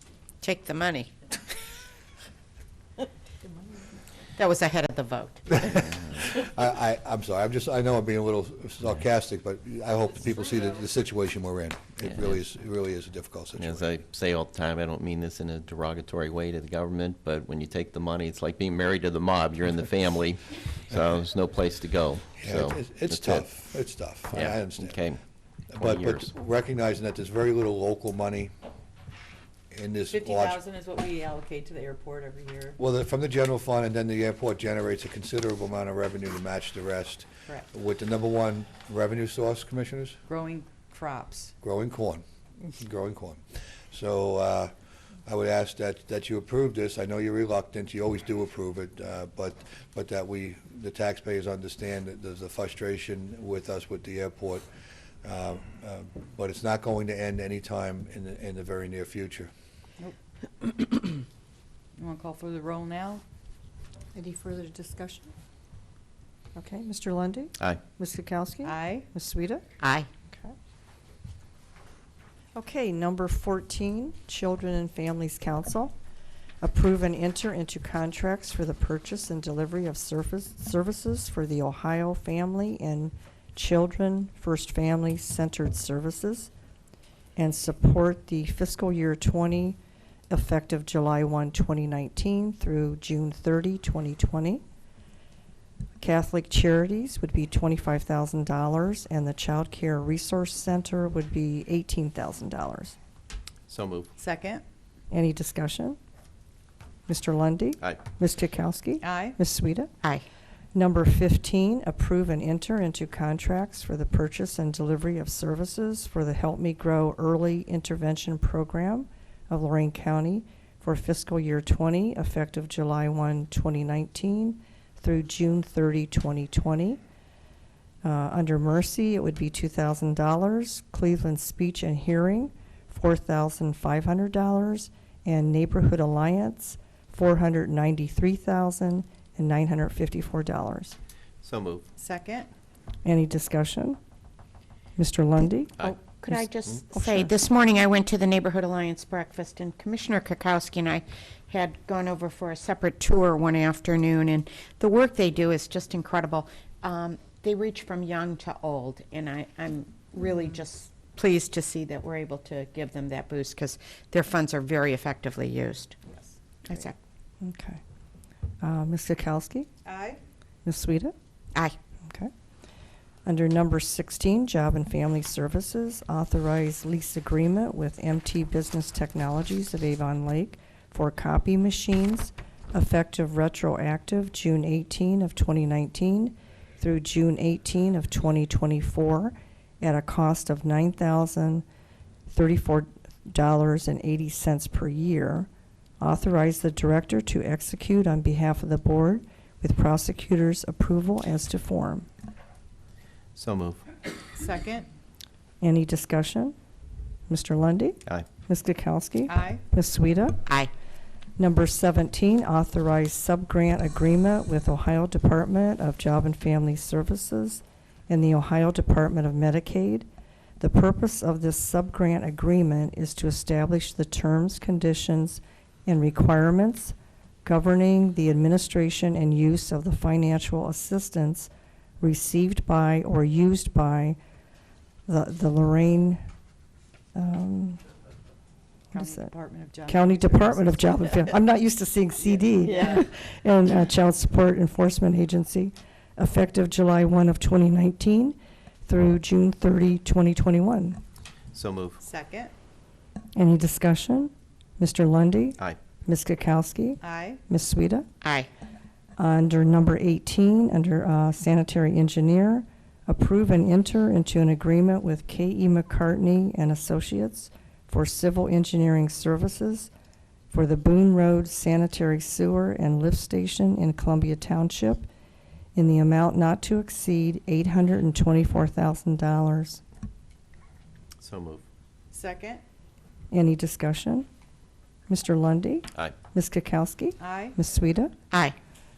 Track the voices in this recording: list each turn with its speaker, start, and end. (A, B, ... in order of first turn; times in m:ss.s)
0:00.4-0:01.2 A
0:04.4-0:06.0 A
0:05.5-0:13.9 B
0:12.0-0:12.4 C
0:13.6-0:23.5 C
0:22.4-0:25.0 B
0:24.3-0:25.2 C
0:25.7-0:28.5 B
0:25.8-0:26.3 C
0:29.7-0:30.6 B
0:30.1-0:32.8 D
0:32.8-0:40.2 B
0:40.3-0:41.5 D
0:41.6-0:44.7 B
0:45.2-0:54.6 B
0:55.2-0:59.5 B
1:02.0-1:03.2 D
1:04.1-1:05.3 E
1:06.6-1:09.6 E
1:08.6-1:09.0 D
1:09.8-1:10.1 A
1:12.6-1:15.9 E
1:16.6-1:26.5 E
1:27.4-1:29.8 E
1:30.3-1:34.6 E
1:36.0-1:42.9 E
1:43.7-1:44.1 C
1:44.2-1:44.6 D
1:45.1-1:46.0 E
1:47.1-1:49.9 E
1:49.0-1:49.4 D
1:50.7-2:07.0 E
2:08.0-2:21.0 E
2:21.4-2:21.8 C
2:22.0-2:22.5 D
2:23.0-2:24.0 E
2:25.0-2:27.3 E
2:25.8-2:46.0 A
2:46.1-2:46.4 D
2:46.6-2:47.0 A
2:47.4-2:47.8 E
2:48.6-2:49.7 E
2:49.8-2:50.2 D
2:50.6-2:51.1 E
2:53.2-3:11.6 E
3:12.3-3:15.5 E
3:16.0-3:22.1 E
3:23.3-3:23.8 C
3:24.4-3:24.9 D
3:25.6-3:26.5 E
3:27.3-3:30.4 E
3:29.3-3:29.6 D
3:30.4-3:30.7 A
3:31.4-3:40.1 E
3:40.6-3:54.2 E
3:55.1-3:56.2 E
3:57.1-3:57.8 E
3:58.9-4:01.0 D
3:58.9-3:59.3 E
3:59.8-4:11.0 E
4:02.7-4:03.0 D
4:11.5-4:12.0 C
4:12.0-4:12.5 D
4:13.4-4:18.0 E
4:17.0-4:17.4 D
4:18.2-4:18.5 A
4:19.2-4:29.9 E
4:30.5-4:35.1 E
4:35.8-4:39.8 E
4:41.2-4:41.6 C
4:42.1-4:42.6 D
4:43.3-4:44.3 E
4:45.1-4:48.1 E
4:47.2-4:47.6 D
4:48.3-4:48.6 A